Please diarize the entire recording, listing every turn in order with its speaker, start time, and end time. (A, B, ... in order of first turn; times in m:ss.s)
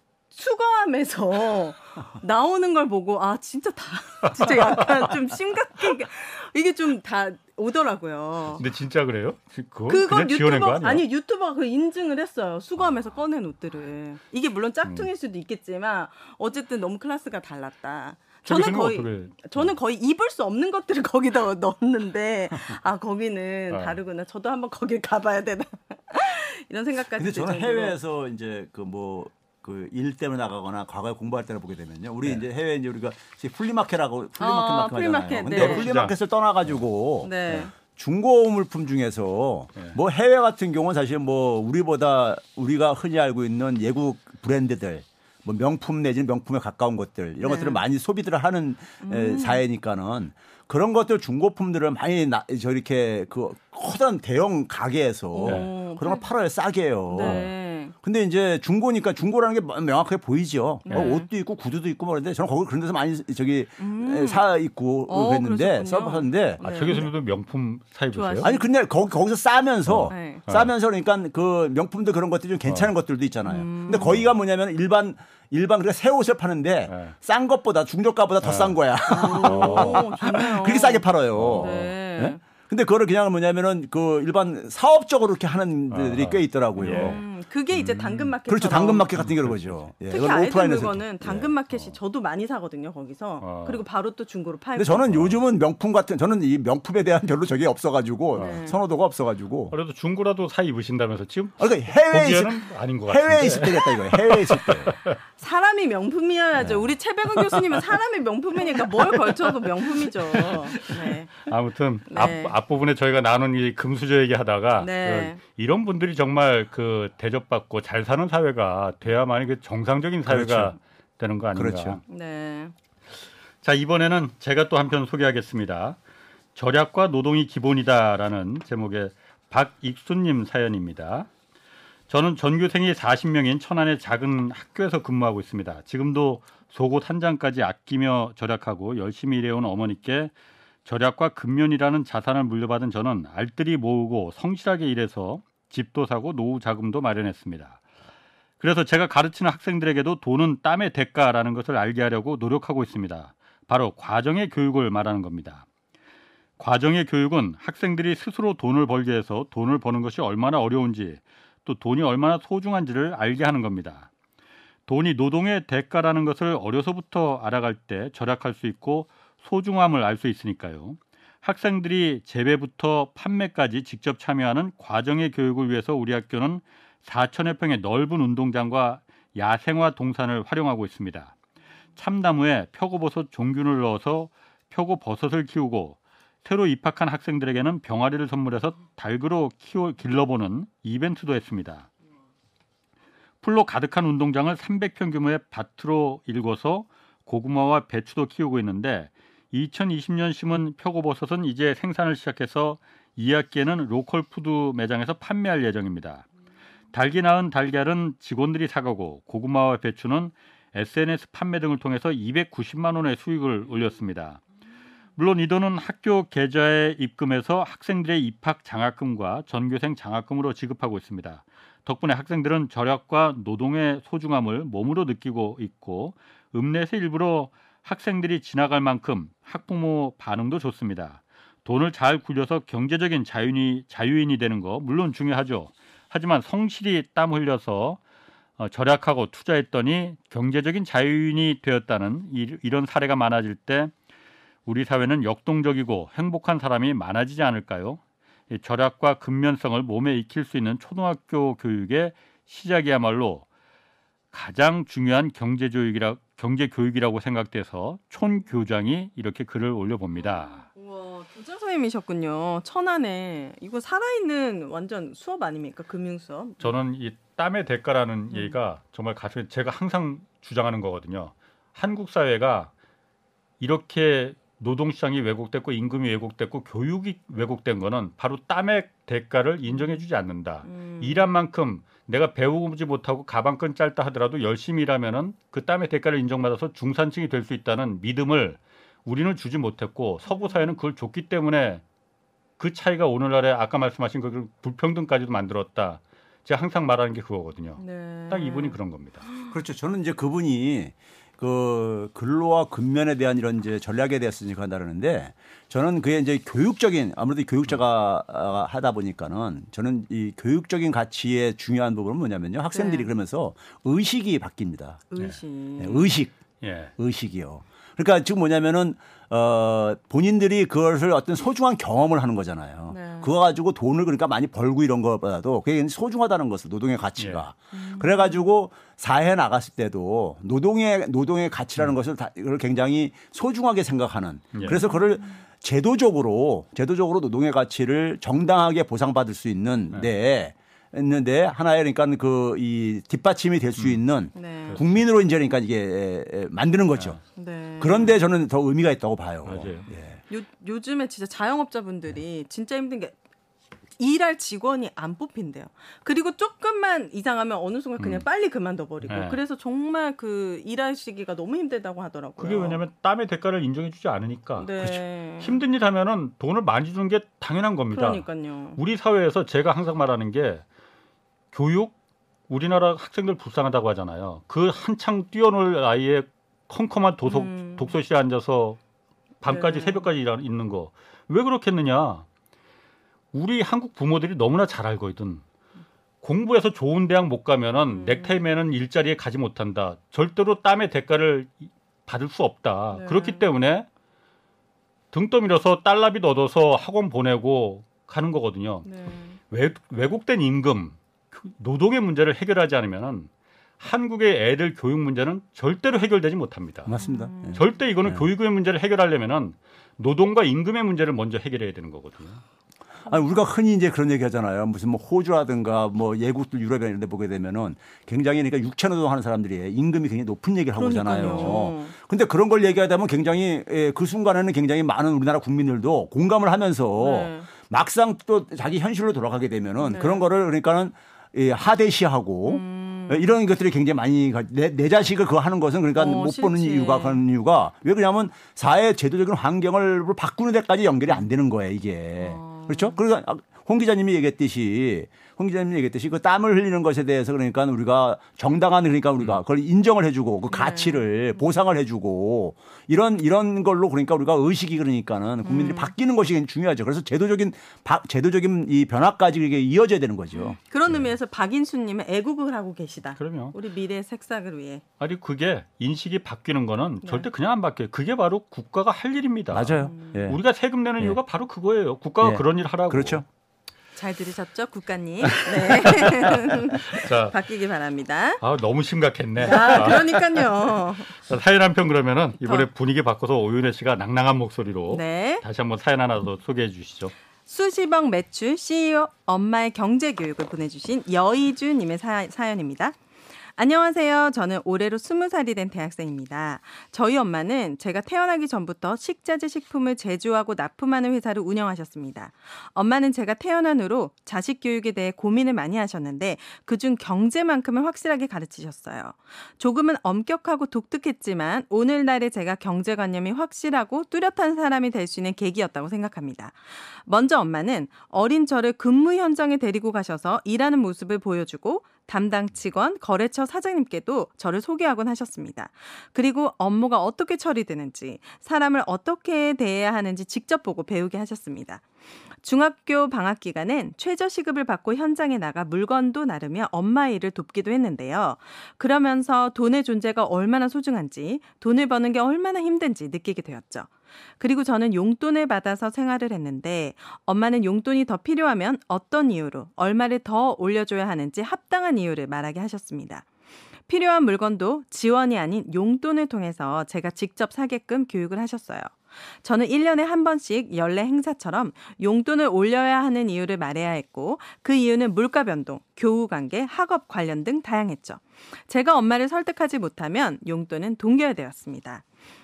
0:00.3-0:08.6 A
0:08.6-0:11.0 B
0:09.9-0:28.0 A
0:18.4-0:19.7 B
0:23.7-0:24.0 B
0:27.2-1:07.1 C
0:34.4-0:35.9 A
0:35.5-0:36.1 B
0:37.2-0:37.7 A
0:47.4-0:47.8 A
0:49.0-0:49.6 A
0:55.3-0:56.3 A
0:57.1-0:57.9 A
0:57.2-0:57.5 B
1:00.9-1:01.3 A
1:03.8-1:04.4 A
1:05.1-1:07.1 A
1:06.6-1:08.5 B
1:08.1-1:08.7 A
1:08.4-1:27.2 C
1:09.9-1:10.7 B
1:10.1-1:10.4 A
1:12.7-1:12.9 B
1:13.5-1:14.2 A
1:16.9-1:17.2 B
1:18.4-1:18.8 B
1:19.1-1:22.4 A
1:19.4-1:20.1 B
1:21.4-1:21.9 B
1:25.9-1:28.3 B
1:26.8-1:29.2 A
1:28.5-1:31.5 C
1:29.1-1:29.7 B
1:30.1-1:35.1 A
1:33.4-1:33.8 B
1:34.8-1:39.8 C
1:35.1-1:35.4 B
1:38.4-1:38.8 A
1:39.7-1:45.2 B
1:41.6-1:45.0 C
1:45.4-1:51.3 A
1:50.4-2:02.0 B
1:52.1-1:52.6 A
1:54.8-1:55.4 A
2:00.2-2:00.8 C
2:01.6-2:02.0 C
2:02.1-2:02.7 A
2:03.6-2:06.0 B
2:06.6-2:11.3 B
2:12.1-2:20.3 B
2:20.8-2:27.8 B
2:28.6-2:35.7 B
2:36.6-2:44.1 B
2:44.9-3:01.4 B
3:02.0-3:11.9 B
3:13.4-3:26.3 B
3:26.9-3:34.4 B
3:35.2-3:58.0 B
3:58.6-4:03.9 B
4:04.7-4:13.5 B
4:14.3-4:20.6 B
4:20.2-4:26.7 A
4:26.6-4:32.7 B
4:33.6-4:51.8 B
4:39.8-4:40.0 A
4:40.6-4:41.3 A
4:50.3-4:50.6 A
4:52.6-4:59.3 B
4:57.8-4:58.8 A
4:59.5-5:15.1 C
5:12.7-5:13.1 A
5:15.1-5:16.1 A
5:15.8-5:16.3 C
5:16.6-5:16.9 B
5:17.0-5:47.2 C
5:22.9-5:23.3 A
5:27.2-5:27.4 B
5:27.7-5:28.4 A
5:34.5-5:34.8 B
5:34.6-5:35.3 A
5:44.4-5:44.8 A
5:44.7-5:45.0 B
5:47.4-5:48.2 A
5:47.8-5:50.2 C
5:49.4-5:49.9 B
5:50.3-5:53.2 A
5:54.0-6:02.8 A
5:58.0-5:58.2 B
5:59.1-5:59.4 B
6:02.4-6:10.6 B
6:04.6-6:05.6 A
6:07.9-6:08.8 A
6:11.5-6:11.9 B
6:12.5-6:18.8 B
6:17.3-6:17.9 A
6:19.4-6:22.3 B
6:19.5-6:20.1 A
6:23.3-6:25.4 B
6:26.2-6:33.9 B
6:27.9-6:28.4 A
6:32.9-6:33.5 A
6:35.1-6:38.9 B
6:38.8-6:39.4 A
6:39.5-6:47.0 B
6:46.8-6:48.2 C
6:47.0-6:47.7 A
6:47.5-6:52.4 B
6:53.1-7:41.0 C
7:00.8-7:01.9 A
7:07.0-7:07.5 A
7:09.8-7:10.2 A
7:12.5-7:13.3 A
7:16.0-7:17.2 A
7:22.2-7:23.0 A
7:30.5-7:31.1 A
7:35.4-7:35.9 A
7:40.3-7:44.8 A
7:43.2-7:43.6 B
7:45.0-7:53.2 B
7:49.5-7:50.4 C
7:49.9-7:50.2 A
7:52.2-7:53.2 C
7:54.0-7:58.4 A
7:55.2-7:57.4 B
7:58.4-8:00.5 B
7:59.4-8:01.2 A
8:01.2-8:07.1 B
8:02.4-8:02.7 A
8:04.9-8:05.4 A
8:07.5-8:13.0 A
8:13.6-8:51.8 A
8:52.4-9:03.9 A
9:04.4-9:13.2 A
9:13.9-9:32.0 A